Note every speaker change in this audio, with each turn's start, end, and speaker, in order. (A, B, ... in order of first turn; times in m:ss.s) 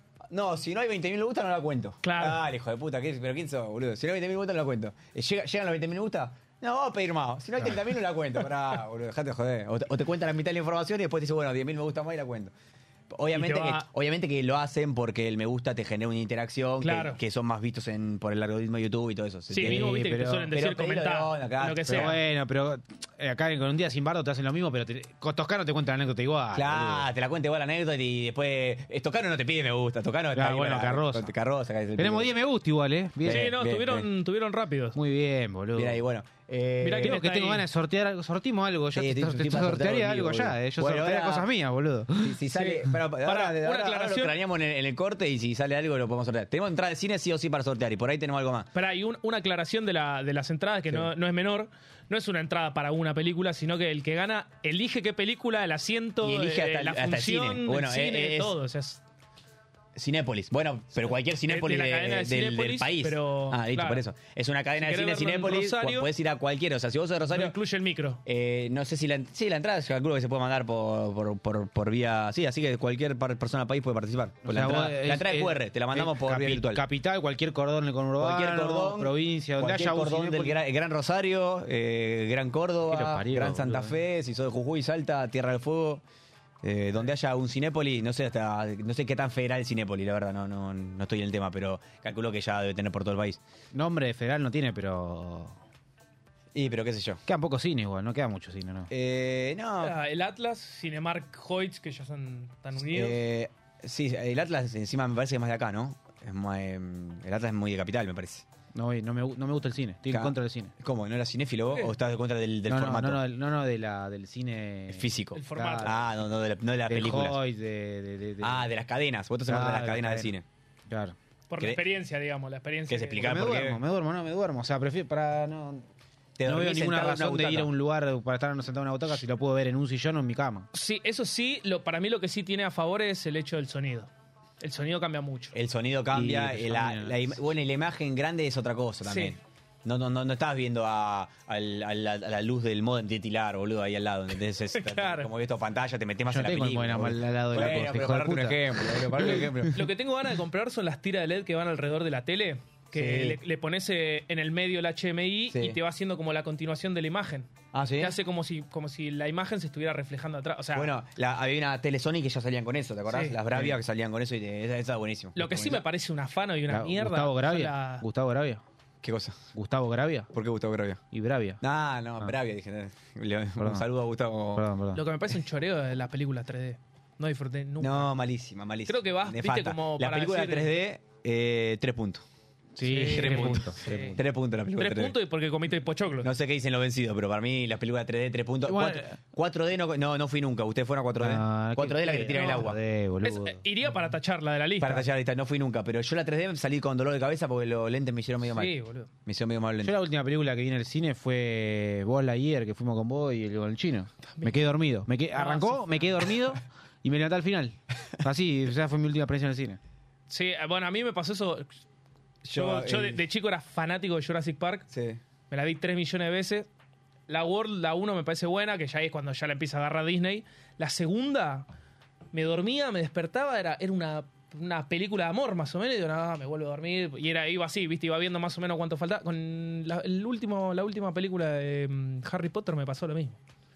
0:00.3-0:12.5 A
0:02.0-0:02.4 B
0:13.1-0:19.9 A
0:13.3-0:13.8 B
0:16.8-0:17.2 B
0:19.5-0:22.2 B
0:19.6-0:20.5 C
0:20.5-0:22.2 A
0:21.9-0:27.1 C
0:26.5-0:32.3 A
0:30.3-0:31.3 C
0:32.0-0:33.5 C
0:33.2-0:34.1 A
0:33.3-0:35.0 B
0:34.9-0:36.0 C
0:35.7-0:37.2 A
0:36.8-0:37.6 B
0:37.0-0:42.4 C
0:38.9-0:41.5 A
0:42.2-0:48.7 A
0:42.5-0:44.4 B
0:48.7-0:59.0 B
0:56.2-0:58.6 A
1:00.0-1:07.5 A
1:01.5-1:04.0 B
1:04.8-1:06.1 B
1:07.3-1:08.2 B
1:08.2-1:16.8 A
1:14.4-1:20.6 C
1:18.2-1:26.0 A
1:22.9-1:24.0 C
1:26.6-1:33.4 A
1:33.7-1:35.6 C
1:36.5-1:37.2 A
1:37.3-1:38.9 C
1:38.9-1:40.0 A
1:39.8-1:43.1 B
1:42.8-1:48.4 A
1:48.7-1:50.7 C
1:50.1-1:53.2 A
1:52.7-1:56.0 C
1:54.9-1:57.4 A
1:55.3-1:56.0 B
1:56.9-1:58.6 C
1:58.4-2:00.4 A
1:59.5-2:00.3 C
2:00.9-2:01.2 C
2:01.5-2:03.3 B
2:02.9-2:03.8 A
2:03.2-2:05.8 C
2:06.4-2:07.7 A
2:06.4-2:10.7 C
2:10.7-2:14.1 B
2:14.6-2:15.5 B
2:15.5-2:29.8 A
2:16.1-2:17.3 C
2:19.0-2:19.3 B
2:24.7-2:25.3 B
2:26.3-2:29.8 C
2:29.7-2:40.9 B
2:32.9-2:33.4 A
2:35.5-2:35.8 A
2:37.7-2:38.2 A
2:40.7-2:45.8 A
2:43.1-2:43.4 B
2:45.4-2:48.0 B
2:46.7-2:48.6 C
2:49.0-2:49.4 A
2:49.5-2:50.3 C
2:50.3-2:51.0 A
2:51.1-2:51.6 C
2:51.6-2:54.7 A
2:53.6-2:53.8 C
2:54.5-2:55.0 C
2:54.9-2:58.1 B
2:57.8-3:02.2 A
2:58.9-3:00.7 B
3:02.8-3:04.2 C
3:02.8-3:04.2 B
3:03.0-3:05.2 A
3:04.7-3:06.3 B
3:06.2-3:12.8 A
3:08.6-3:09.2 C
3:11.2-3:13.6 C
3:12.2-3:12.6 B
3:13.2-3:15.0 B
3:14.8-3:18.7 A
3:18.5-3:19.1 B
3:19.2-3:19.9 A
3:19.8-3:29.8 C
3:24.3-3:24.5 B
3:25.3-3:26.2 B
3:30.3-3:31.7 B
3:32.4-3:33.2 A
3:32.5-3:34.9 B
3:34.9-3:35.2 A
3:35.5-3:36.7 B
3:37.3-3:41.7 B
3:42.3-3:53.4 B